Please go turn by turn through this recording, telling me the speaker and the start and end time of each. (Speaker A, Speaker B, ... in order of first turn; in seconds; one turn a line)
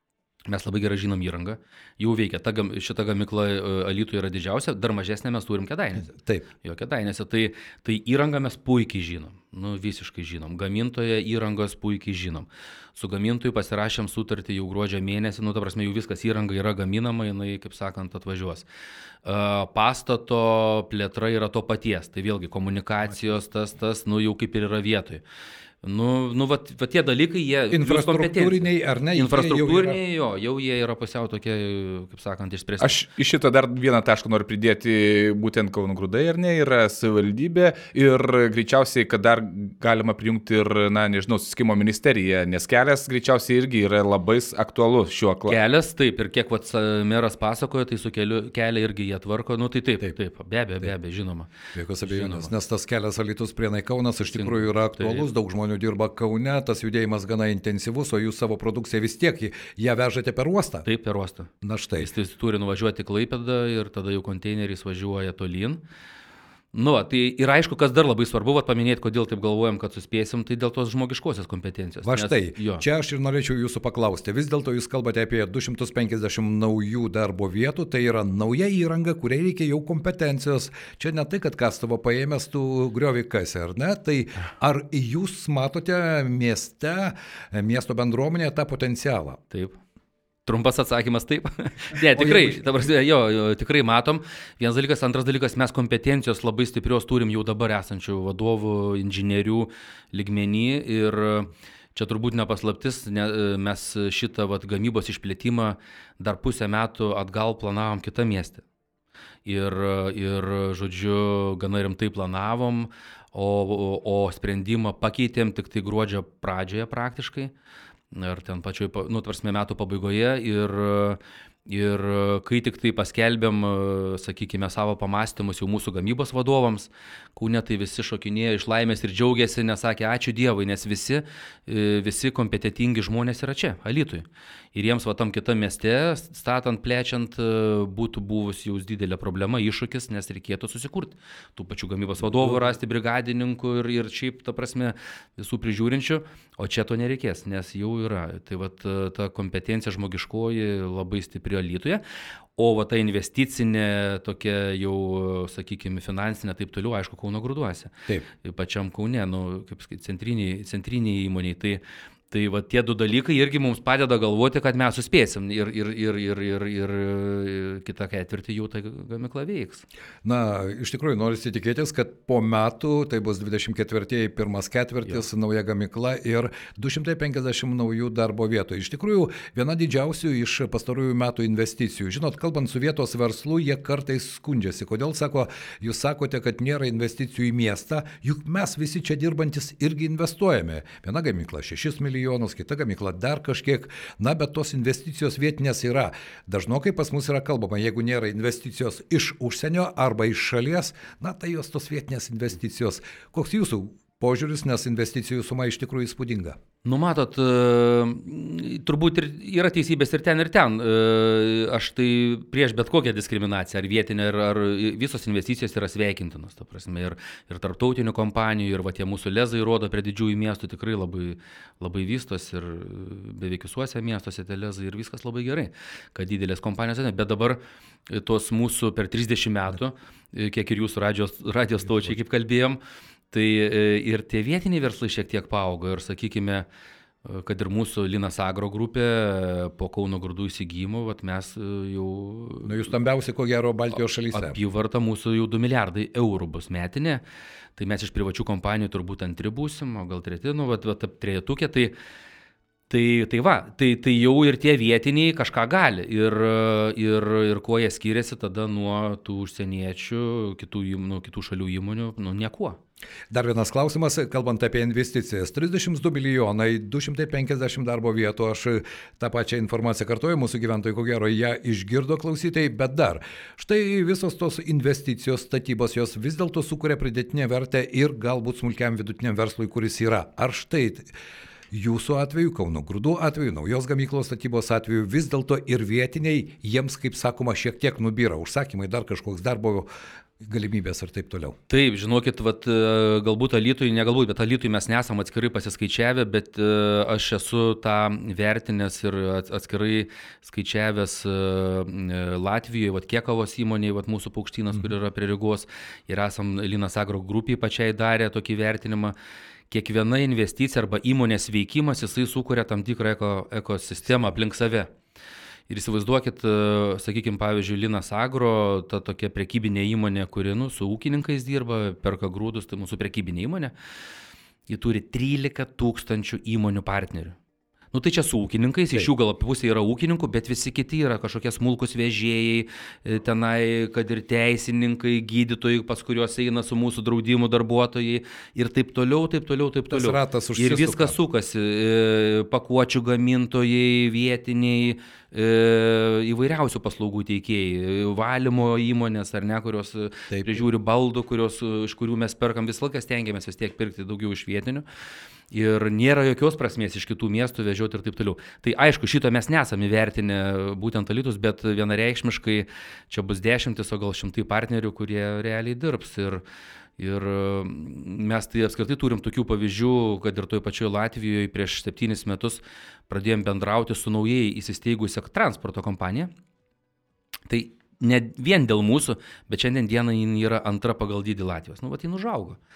Speaker A: 0.5-18.7
Speaker B: 6.1-6.5
Speaker A: 19.2-25.2
Speaker A: 25.8-33.0
Speaker B: 27.7-30.0
Speaker C: 32.8-45.6
Speaker A: 45.5-51.5
Speaker B: 51.8-60.9
Speaker A: 52.0-52.5
Speaker A: 54.3-55.3
Speaker A: 60.9-65.8
Speaker B: 61.6-62.1
Speaker A: 66.7-72.8
Speaker B: 72.0-89.4
Speaker A: 89.5-89.8
Speaker A: 90.5-108.6
Speaker B: 92.2-92.6
Speaker A: 109.5-117.5
Speaker A: 118.1-152.0
Speaker B: 142.2-142.8
Speaker A: 152.6-169.8
Speaker B: 170.2-206.6
Speaker A: 206.8-232.8
Speaker A: 233.3-236.7
Speaker A: 237.2-242.8
Speaker B: 242.6-244.6
Speaker A: 244.3-247.2
Speaker A: 247.8-252.0
Speaker A: 252.9-262.8
Speaker B: 263.3-281.1
Speaker B: 281.7-289.9
Speaker B: 290.4-291.6
Speaker A: 291.7-309.1
Speaker A: 309.7-314.9
Speaker B: 314.1-314.3
Speaker A: 315.7-323.7
Speaker A: 324.7-327.4
Speaker A: 327.9-354.9
Speaker B: 339.9-341.2
Speaker B: 350.3-350.6
Speaker A: 355.5-366.4
Speaker A: 367.0-376.3
Speaker A: 377.5-382.6